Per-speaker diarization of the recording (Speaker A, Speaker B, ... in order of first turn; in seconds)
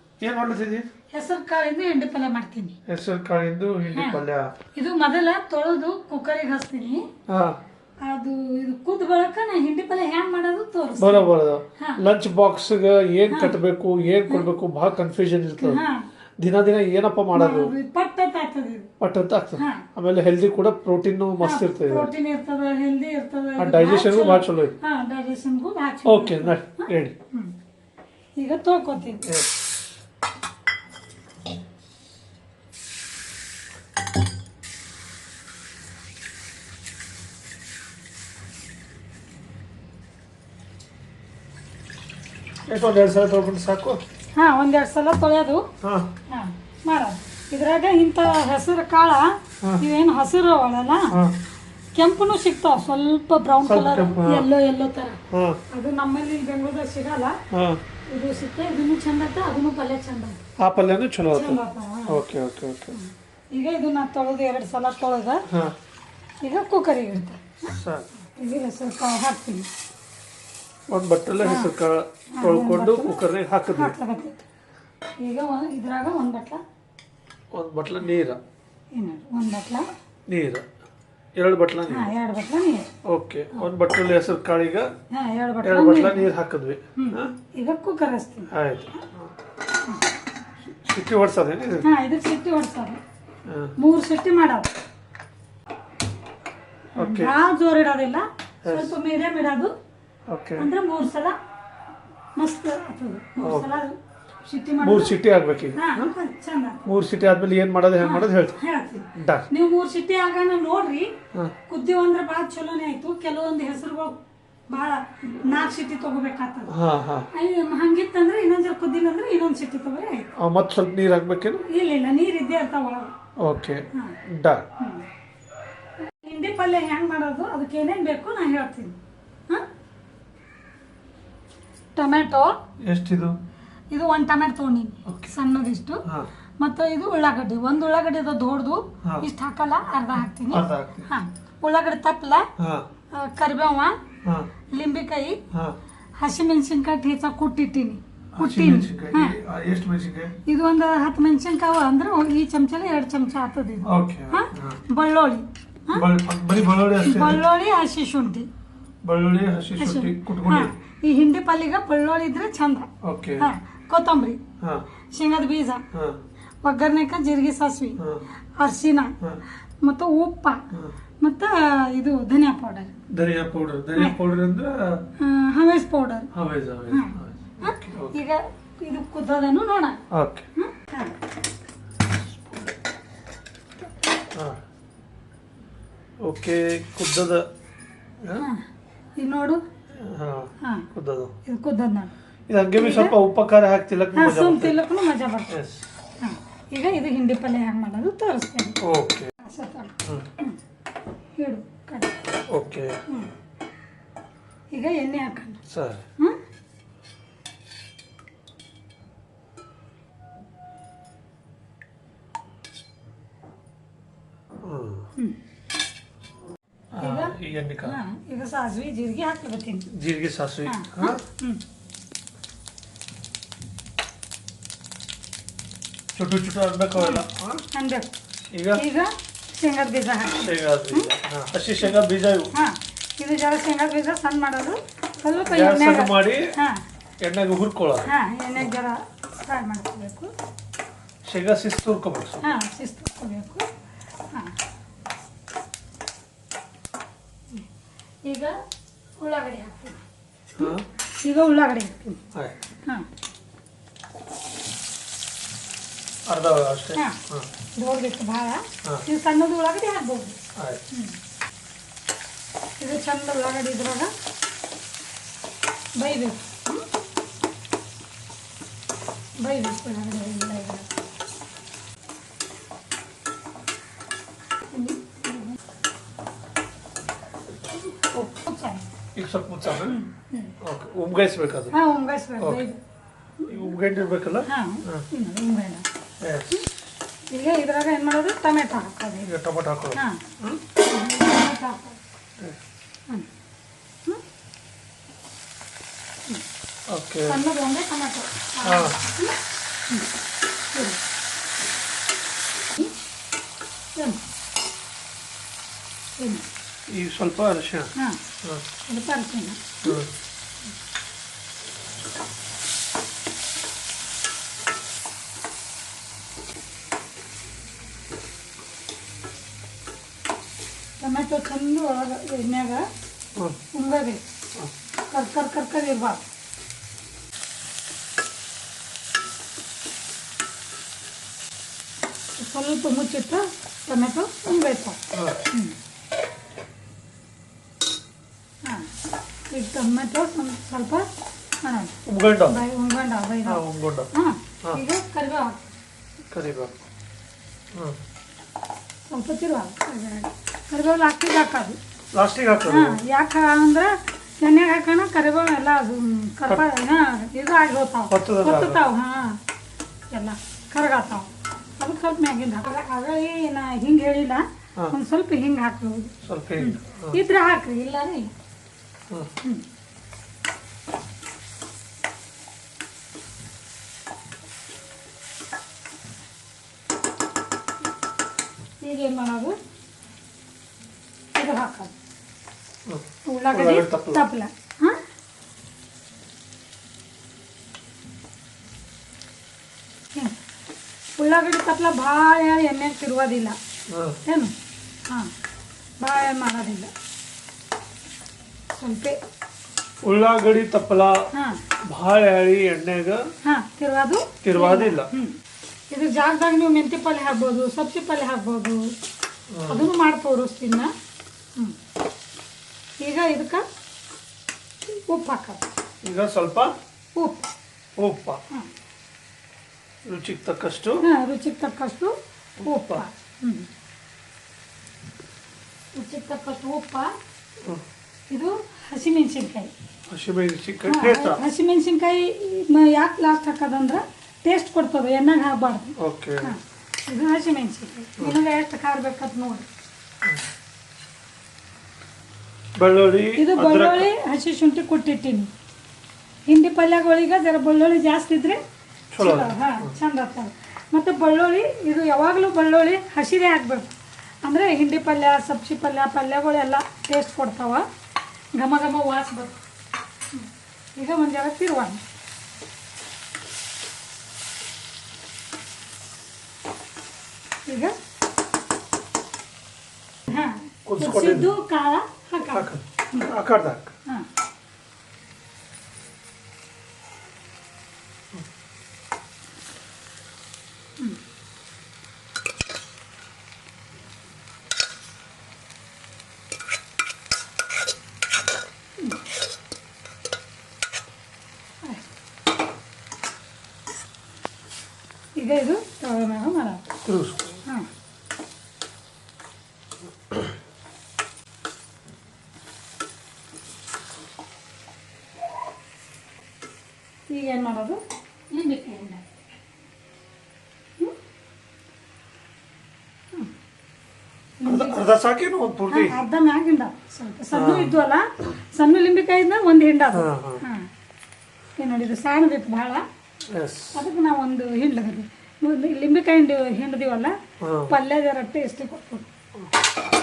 Speaker A: 0.2-0.8, 2.9-4.5, 7.3-7.6, 11.0-15.8, 16.4-17.7, 19.0-22.1, 23.6-24.8, 26.0-27.1, 29.2-29.8, 42.7-44.0, 45.8-46.1, 51.1-51.3, 53.6-54.5, 55.3-55.6, 57.5-57.8, 60.6-63.0, 65.5-65.7, 67.6-68.1, 70.9-73.9, 77.5-78.4, 80.3-80.7, 81.3-82.1, 83.0-84.9, 85.6-87.3, 88.5-89.2, 90.8-91.9, 93.5-93.7, 97.0-97.3, 98.6-98.9, 100.3-100.7, 103.4-103.7, 104.8-106.1, 106.8-108.6, 109.2-109.5, 116.7-117.3, 120.4-121.6, 123.4-124.7, 132.8-133.3, 140.5-141.1, 142.6-142.8, 145.5-145.8, 148.3-150.4, 153.8-154.8, 155.9-157.4, 159.0-160.7, 163.0-163.5, 164.6-164.9, 165.9-166.2, 173.1-175.1, 176.3-178.1, 180.1-180.4, 184.3-184.6, 186.2-187.4, 189.9-191.3, 192.5-194.8, 195.5-195.8, 198.8-199.3, 202.5-203.0, 205.7-206.0, 214.6-215.1, 216.9-218.0, 219.9-221.2, 226.1-227.6, 228.5-228.8, 230.3-232.5, 235.4-236.5, 237.2-238.1, 241.2-242.5, 250.6-250.8, 256.3-257.5, 260.6-260.8, 279.1-280.0, 280.6-281.7, 282.4-282.6, 283.4-285.0, 286.2-286.7, 289.2-290.6, 296.9-297.4, 298.6-299.0, 306.9-307.9, 309.8-310.1, 335.1-335.4, 342.1-342.6, 343.4-344.1, 346.3-346.7, 352.1-353.0, 358.1-358.9, 366.2-367.2, 382.9-384.2, 393.9-394.2, 400.0-401.3, 401.9-403.2, 404.4-405.1, 409.5-409.9, 416.0-416.7, 418.0-418.4, 420.1-421.0, 422.6-423.1, 430.1-431.4, 436.0-436.5, 442.8-444.1, 449.1-449.9, 470.9-471.5, 472.4-473.9, 497.0-497.6, 514.6-516.1, 517.5-518.0, 520.1-520.6, 523.5-524.0, 527.6-528.0
Speaker B: 1.1-2.8, 3.9-4.2, 4.7-7.0, 8.0-12.0, 13.3-13.6, 15.6-16.1, 17.3-18.9, 19.6-19.9, 21.4-27.5, 28.4-29.2, 44.4-45.7, 46.3-51.1, 51.9-57.4, 58.1-60.4, 61.3-62.2, 62.9-65.5, 66.4-67.7, 68.3-69.7, 71.4-71.7, 72.3-73.2, 73.7-74.4, 75.2-76.6, 78.9-79.8, 81.9-82.9, 85.1-86.3, 87.0-88.5, 91.8-93.0, 93.8-94.7, 97.0-99.7, 100.6-101.3, 102.4-105.2, 105.8-106.8, 108.0-114.2, 114.7-116.7, 117.3-120.3, 121.7-123.1, 124.8-125.0, 126.0-128.9, 131.9-132.6, 133.9-136.0, 136.6-142.5, 143.1-144.0, 144.7-145.4, 146.2-149.4, 150.4-156.0, 157.0-158.5, 159.8-164.4, 165.1-165.8, 166.6-168.0, 168.6-169.2, 169.8-170.7, 171.2-172.9, 175.2-176.3, 176.9-180.0, 180.6-181.1, 188.3-188.6, 189.2-189.6, 190.6-190.9, 191.4-192.1, 192.8-193.2, 194.1-195.5, 196.2-198.8, 199.4-200.6, 201.4-202.2, 204.7-205.6, 217.0-219.9, 220.6-221.6, 226.9-228.1, 228.7-231.1, 232.5-236.8, 238.0-240.3, 242.4-243.6, 248.2-248.5, 249.2-250.0, 250.6-252.2, 257.7-260.4, 262.8-264.1, 266.0-266.8, 269.4-270.9, 274.7-275.6, 278.1-278.9, 279.8-280.5, 281.7-282.8, 283.4-283.7, 284.4-285.8, 287.3-289.3, 289.9-290.2, 290.8-292.0, 297.3-299.4, 300.7-301.0, 306.2-306.4, 307.9-308.2, 308.9-310.0, 321.0-322.9, 323.7-324.2, 325.1-326.2, 332.4-335.0, 339.5-341.1, 341.6-341.9, 342.4-343.6, 344.1-345.7, 349.0-351.8, 352.7-359.4, 360.1-368.3, 378.8-379.5, 381.3-381.9, 383.3-385.0, 391.2-393.6, 394.2-394.5, 396.0-396.9, 398.7-399.2, 401.3-401.6, 403.4-405.4, 405.9-408.9, 409.7-410.9, 413.0-413.6, 414.9-415.6, 417.2-417.5, 421.0-423.7, 425.9-427.1, 428.3-429.7, 430.9-439.6, 443.4-445.5, 446.5-448.6, 449.2-453.9, 454.4-457.9, 458.5-459.6, 460.3-462.0, 467.6-468.0, 470.3-473.3, 495.4-496.8, 507.3-509.2, 514.6-515.0, 515.9-520.9, 521.8-523.0, 523.9-527.3, 527.9-529.3